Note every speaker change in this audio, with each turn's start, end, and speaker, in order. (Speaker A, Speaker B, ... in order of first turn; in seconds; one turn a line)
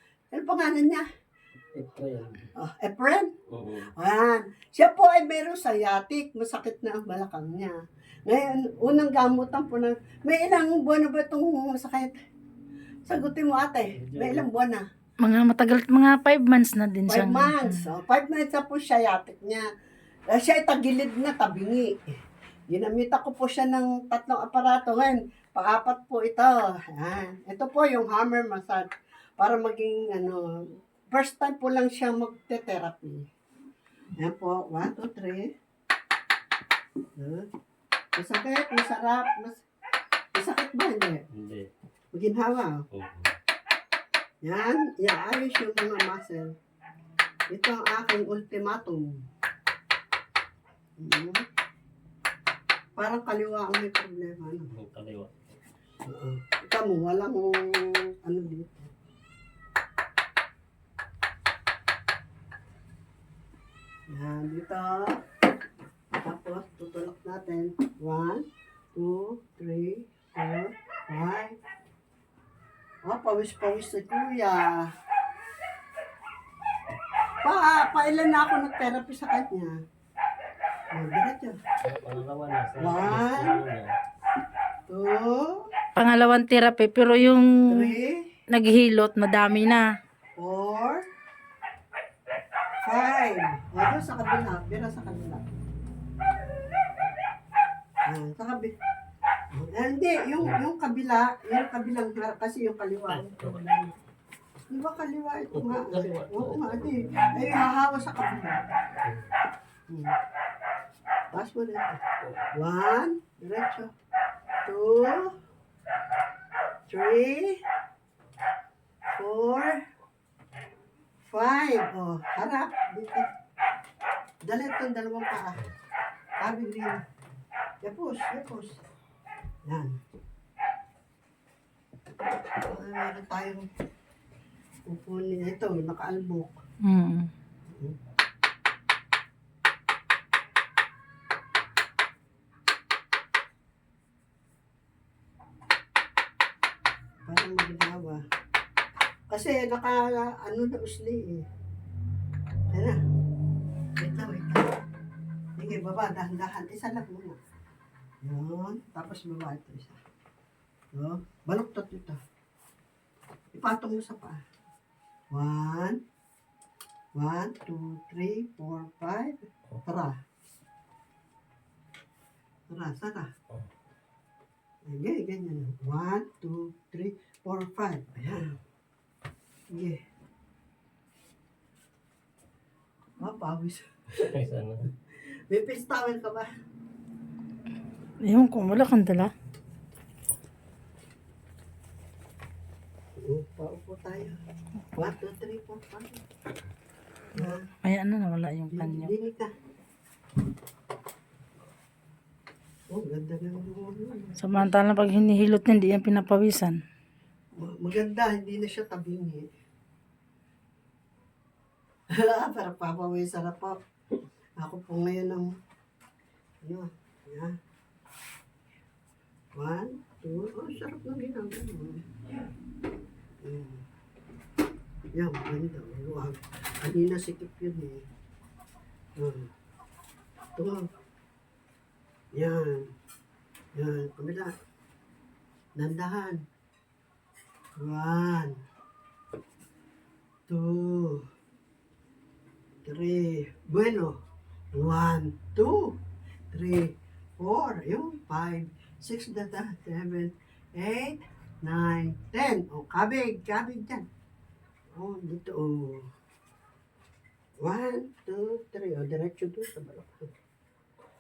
Speaker A: 0.3-1.1
Speaker B: 1.8-2.5
Speaker A: 2.6-12.2
Speaker B: 3.5-3.9
Speaker A: 13.1-14.8
Speaker B: 13.9-14.5
Speaker C: 15.2-17.8
Speaker A: 17.1-19.7
Speaker A: 20.3-22.0
Speaker A: 22.7-33.3
Speaker A: 34.2-35.5
Speaker A: 37.2-37.5
Speaker A: 38.2-39.6
Speaker A: 40.3-41.2
Speaker B: 41.3-41.7
Speaker A: 42.1-42.9
Speaker B: 42.9-43.3
Speaker A: 44.4-46.5
Speaker A: 47.5-49.2
Speaker A: 51.0-51.5
Speaker A: 53.0-54.7
Speaker B: 54.7-55.6
Speaker A: 56.1-58.9
Speaker A: 64.1-65.2
Speaker A: 66.2-71.6
Speaker A: 73.0-74.9
Speaker A: 77.4-79.8
Speaker A: 80.9-81.6
Speaker B: 81.8-83.9
Speaker A: 82.8-83.6
Speaker A: 84.9-85.7
Speaker C: 86.0-87.9
Speaker A: 87.7-88.3
Speaker C: 88.5-89.9
Speaker A: 90.4-91.0
Speaker A: 92.8-95.5
Speaker A: 98.1-98.7
Speaker A: 99.5-103.9
Speaker B: 103.1-103.6
Speaker A: 104.7-108.6
Speaker B: 105.5-107.0
Speaker B: 109.0-109.3
Speaker A: 109.9-110.2
Speaker A: 111.3-112.0
Speaker A: 112.5-113.9
Speaker A: 114.7-115.4
Speaker A: 116.9-117.6
Speaker A: 119.1-119.8
Speaker A: 121.3-123.3
Speaker A: 124.4-125.7
Speaker A: 126.4-127.0
Speaker A: 127.8-128.8
Speaker A: 129.7-130.0
Speaker A: 132.6-133.7
Speaker A: 134.9-136.6
Speaker C: 136.8-137.3
Speaker A: 137.7-138.0
Speaker A: 147.3-148.2
Speaker A: 149.3-151.4
Speaker A: 152.7-153.0
Speaker A: 154.0-154.7
Speaker A: 155.6-157.4
Speaker A: 158.2-160.0
Speaker A: 160.9-162.2
Speaker A: 163.5-164.4
Speaker A: 165.3-166.0
Speaker A: 167.2-170.2
Speaker A: 172.7-173.3
Speaker A: 174.8-178.6
Speaker A: 179.7-180.0
Speaker A: 183.2-184.3
Speaker B: 184.3-184.9
Speaker A: 185.5-186.5
Speaker C: 188.2-189.3
Speaker A: 193.2-194.4
Speaker A: 195.0-196.2
Speaker A: 197.3-197.6
Speaker C: 197.8-199.1
Speaker A: 198.7-199.5
Speaker A: 202.9-204.7
Speaker C: 204.4-206.8
Speaker A: 207.6-209.5
Speaker A: 212.1-213.8
Speaker A: 214.6-215.5
Speaker A: 216.6-217.6
Speaker A: 219.5-222.1
Speaker A: 223.4-223.8
Speaker A: 225.1-228.1
Speaker A: 229.2-229.5
Speaker A: 230.6-230.9
Speaker A: 232.3-232.9
Speaker A: 233.8-234.5
Speaker A: 235.8-236.4
Speaker A: 237.8-238.6
Speaker A: 240.5-241.2
Speaker A: 242.8-244.2
Speaker A: 244.7-246.0
Speaker A: 246.5-254.1
Speaker A: 254.9-256.1
Speaker A: 257.6-260.3